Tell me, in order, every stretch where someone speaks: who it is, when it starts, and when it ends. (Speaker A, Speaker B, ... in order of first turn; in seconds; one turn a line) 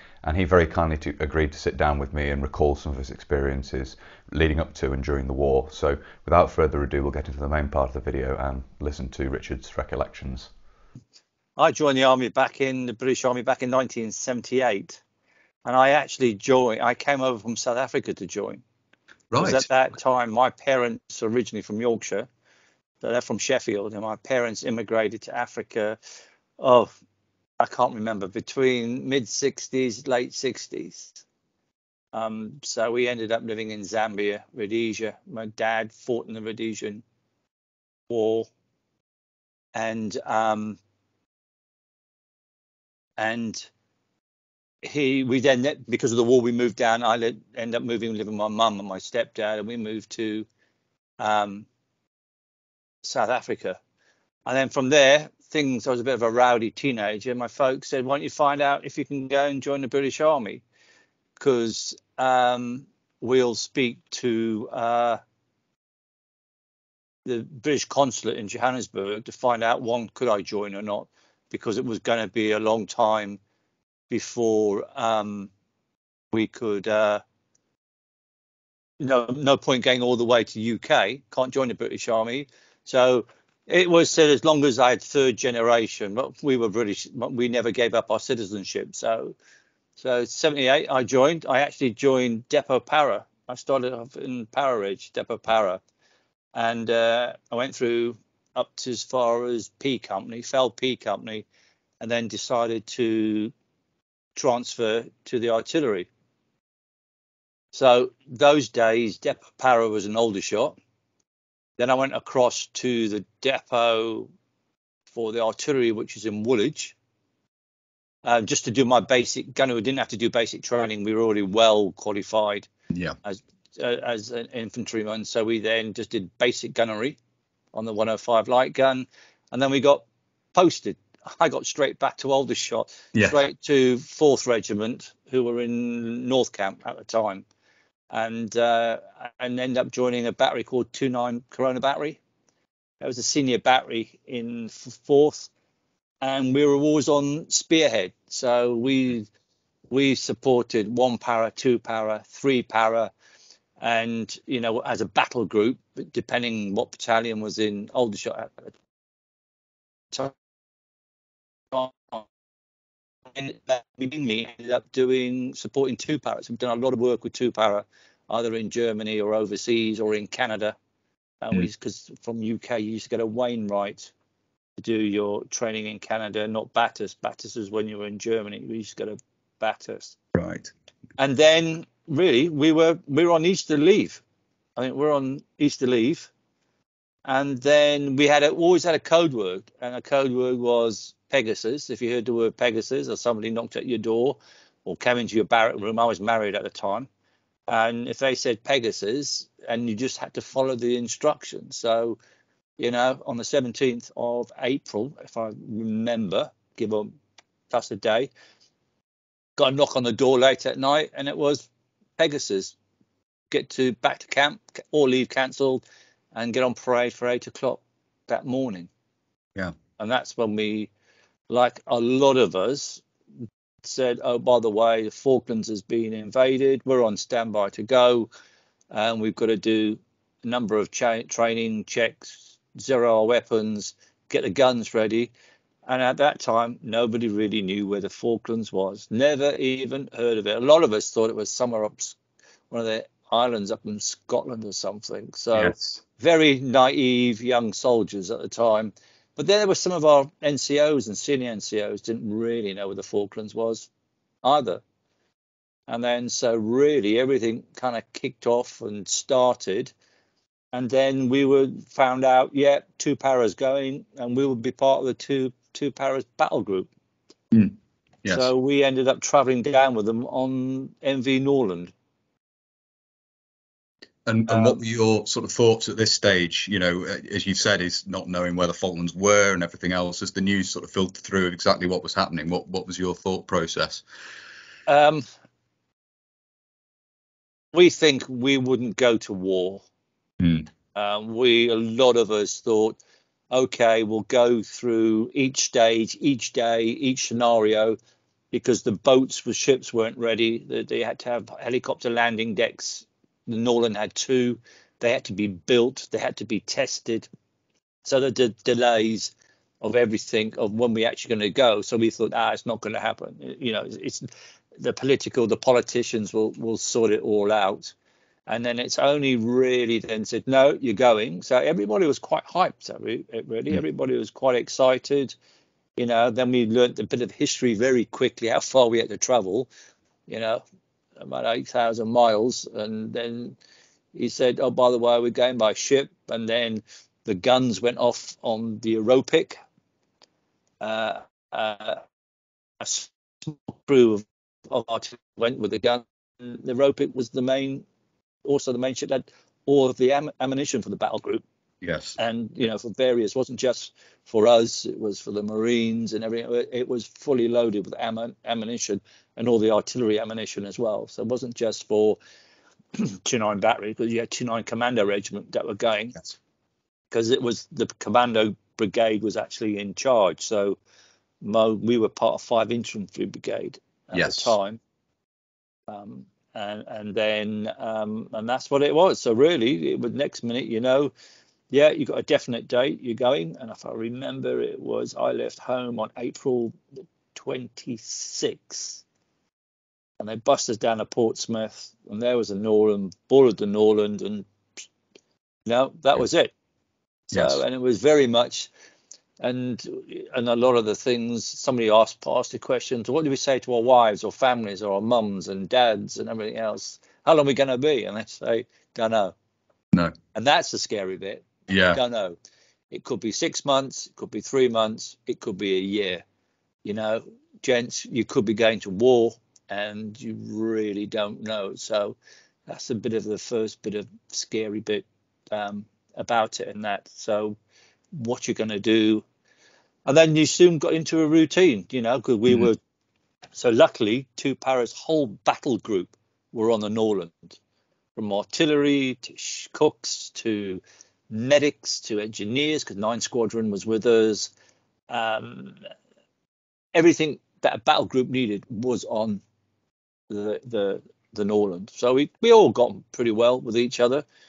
Speaker A: 0.2-10.5
Speaker B: 11.6-15.0
Speaker B: 15.7-18.6
Speaker C: 19.3-19.7
Speaker B: 19.4-22.3
Speaker B: 23.0-26.0
Speaker B: 26.6-26.9
Speaker B: 27.6-31.2
Speaker B: 32.1-37.0
Speaker B: 38.1-38.5
Speaker B: 39.7-40.8
Speaker B: 43.2-43.7
Speaker B: 44.8-50.5
Speaker B: 51.2-51.7
Speaker B: 53.0-53.8
Speaker B: 54.5-60.6
Speaker B: 61.4-65.2
Speaker B: 67.2-73.4
Speaker B: 74.1-75.5
Speaker B: 76.3-77.2
Speaker B: 79.0-89.4
Speaker B: 90.0-95.8
Speaker B: 96.5-101.5
Speaker B: 102.0-103.5
Speaker B: 104.4-106.1
Speaker B: 107.7-110.8
Speaker B: 111.8-114.3
Speaker B: 115.1-116.9
Speaker B: 118.2-122.7
Speaker C: 122.9-123.2
Speaker B: 123.2-127.2
Speaker B: 127.7-137.4
Speaker B: 138.1-142.2
Speaker B: 143.0-145.5
Speaker B: 146.2-149.3
Speaker B: 149.9-153.1
Speaker B: 153.8-158.7
Speaker B: 161.7-162.3
Speaker B: 163.3-170.8
Speaker B: 171.4-174.1
Speaker B: 174.8-180.2
Speaker C: 180.3-180.7
Speaker B: 181.2-184.2
Speaker B: 184.8-186.3
Speaker B: 187.3-197.1
Speaker B: 197.7-202.2
Speaker B: 202.8-207.1
Speaker B: 207.7-208.3
Speaker B: 209.6-211.7
Speaker B: 212.2-212.8
Speaker B: 213.5-215.8
Speaker B: 216.3-218.9
Speaker B: 220.0-220.9
Speaker B: 221.5-223.0
Speaker B: 223.8-228.3
Speaker B: 228.9-235.3
Speaker B: 235.9-242.2
Speaker B: 242.7-253.9
Speaker C: 245.6-246.0
Speaker B: 254.4-254.8
Speaker B: 255.9-259.9
Speaker B: 260.7-266.9
Speaker C: 267.5-268.5
Speaker B: 268.3-271.9
Speaker C: 274.3-284.0
Speaker B: 274.5-274.8
Speaker B: 284.9-285.3
Speaker B: 287.7-289.8
Speaker C: 290.4-290.7
Speaker B: 290.9-293.0
Speaker B: 293.5-298.0
Speaker B: 298.5-307.3
Speaker B: 308.1-317.9
Speaker B: 318.5-325.3
Speaker B: 326.0-329.7
Speaker B: 330.3-330.6
Speaker B: 331.2-333.6
Speaker B: 334.1-339.6
Speaker B: 340.8-342.0
Speaker B: 342.8-347.8
Speaker B: 348.4-351.4
Speaker C: 351.8-352.2
Speaker B: 352.2-362.2
Speaker B: 363.0-366.2
Speaker B: 367.1-370.8
Speaker B: 371.4-374.8
Speaker C: 374.1-374.5
Speaker B: 375.9-381.1
Speaker B: 381.7-386.8
Speaker B: 387.3-389.0
Speaker B: 390.2-394.5
Speaker B: 395.7-396.5
Speaker B: 397.3-398.7
Speaker C: 397.3-397.6
Speaker B: 399.4-409.4
Speaker B: 410.4-412.4
Speaker C: 411.7-412.0
Speaker B: 412.9-416.2
Speaker B: 416.9-427.6
Speaker B: 428.1-429.2
Speaker B: 430.1-432.8
Speaker B: 433.6-437.6
Speaker B: 438.2-444.5
Speaker B: 445.1-445.8
Speaker B: 446.9-449.4
Speaker B: 450.3-454.3